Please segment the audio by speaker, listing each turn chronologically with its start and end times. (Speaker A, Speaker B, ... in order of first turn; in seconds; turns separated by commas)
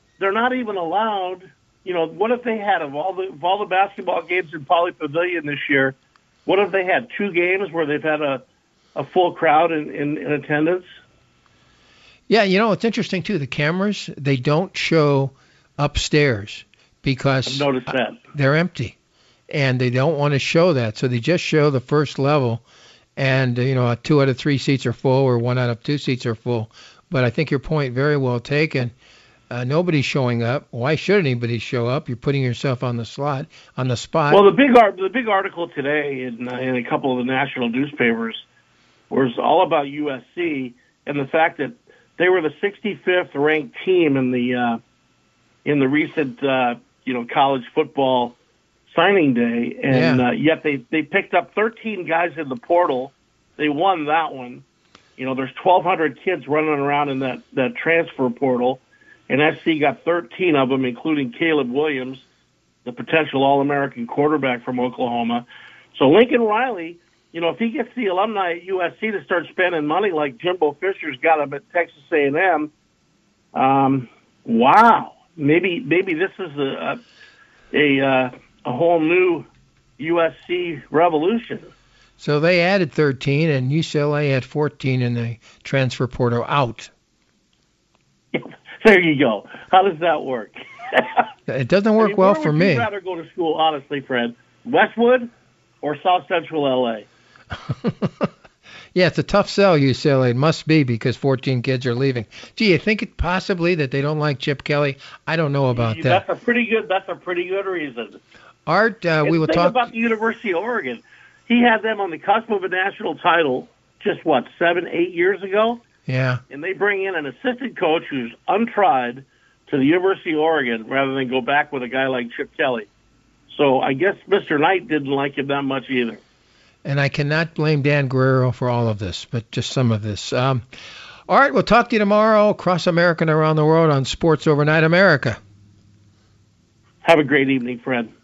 Speaker A: 0.2-8.4, Speaker A: 8.9-10.9, Speaker B: 12.3-17.7, Speaker A: 17.4-18.2, Speaker B: 18.3-18.9, Speaker B: 19.5-22.6, Speaker B: 23.2-28.9, Speaker B: 29.5-34.4, Speaker A: 34.3-38.4, Speaker A: 39.1-44.8, Speaker A: 45.6-48.4, Speaker A: 48.9-54.6, Speaker B: 49.9-50.2, Speaker A: 55.2-62.2, Speaker A: 62.8-72.7, Speaker A: 73.5-77.0, Speaker A: 77.7-79.5, Speaker A: 80.0-81.7, Speaker B: 82.2-86.9, Speaker A: 88.3-91.2, Speaker B: 91.5-92.9, Speaker A: 92.0-95.3, Speaker A: 95.8-97.1, Speaker B: 97.6-98.3, Speaker B: 98.9-106.2, Speaker A: 105.7-108.2, Speaker B: 108.7-109.9, Speaker A: 109.2-115.8, Speaker B: 116.1-116.4, Speaker A: 116.5-122.9, Speaker A: 123.5-126.2, Speaker B: 126.8-130.6, Speaker B: 131.3-135.4, Speaker A: 137.0-138.1